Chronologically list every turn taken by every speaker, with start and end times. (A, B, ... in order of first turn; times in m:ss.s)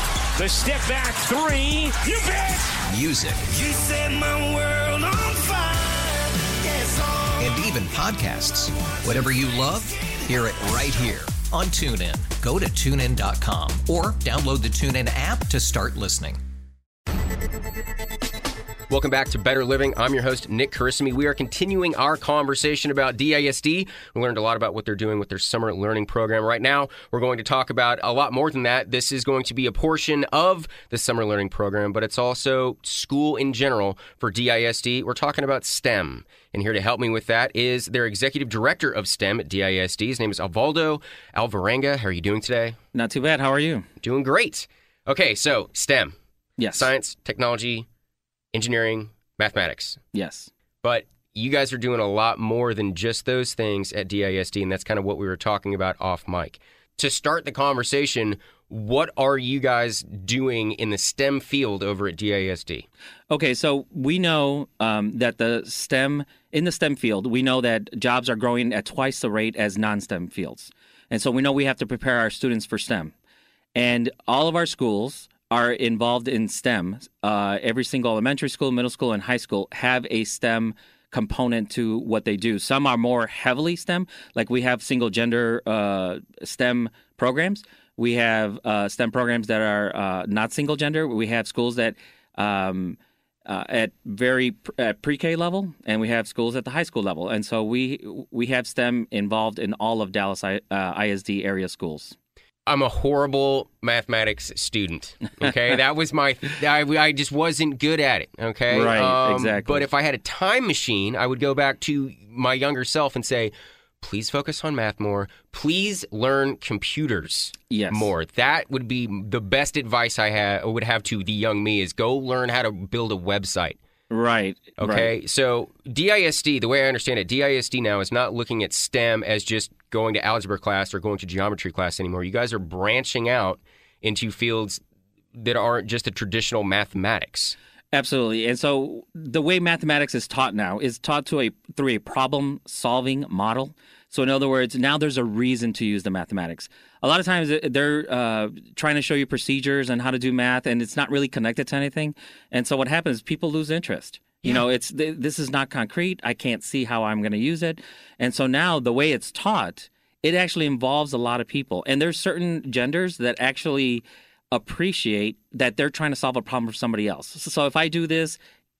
0:00.4-0:02.8 A
0:02.9-0:03.4 B
0:03.4-0:07.4 C
0:07.4-0:16.4 B
0:18.9-0:42.8 D
0:42.9-0:43.9 E
0:44.0-0:46.2 D
0:46.6-0:46.9 E
0:46.8-0:47.9 D
0:48.5-0:50.0 D
0:50.1-0:50.5 E
0:50.8-1:02.9 D
1:03.3-1:13.1 E
1:13.7-1:42.2 E
1:42.7-2:03.8 D
1:48.7-1:49.8 E
1:57.7-1:58.1 E
2:04.1-2:05.1 E
2:04.8-2:14.8 D
2:15.3-2:17.6 D
2:17.9-2:48.4 E